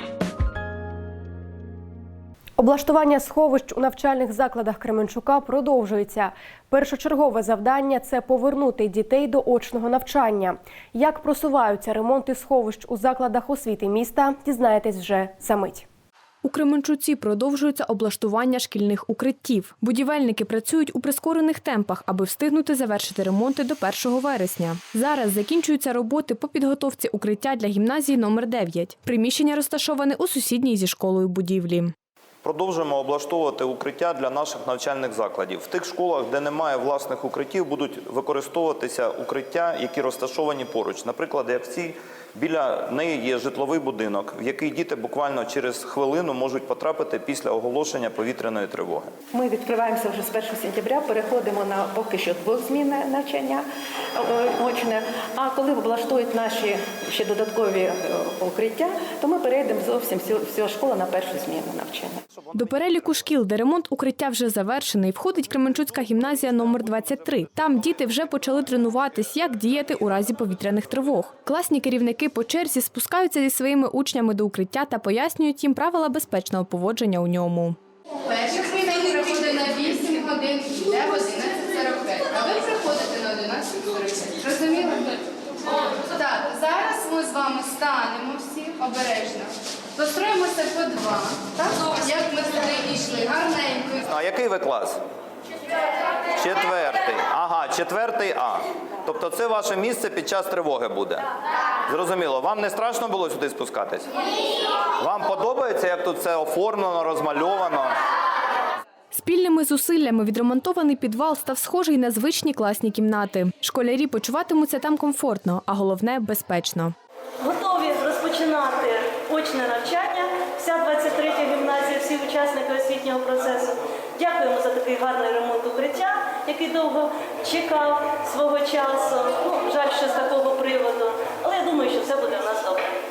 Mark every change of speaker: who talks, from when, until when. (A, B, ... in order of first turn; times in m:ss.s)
0:02.6-0:15.8 A
0:16.4-0:31.9 B
0:32.4-0:49.2 C
0:49.3-1:02.2 D
1:02.5-1:17.8 B
1:18.2-1:25.2 E
1:25.8-1:34.0 E
1:34.1-1:35.0 C
1:36.3-1:41.2 C
1:41.9-1:44.1 C
1:45.0-1:48.0 C
1:49.1-1:56.9 B
1:57.4-2:12.9 F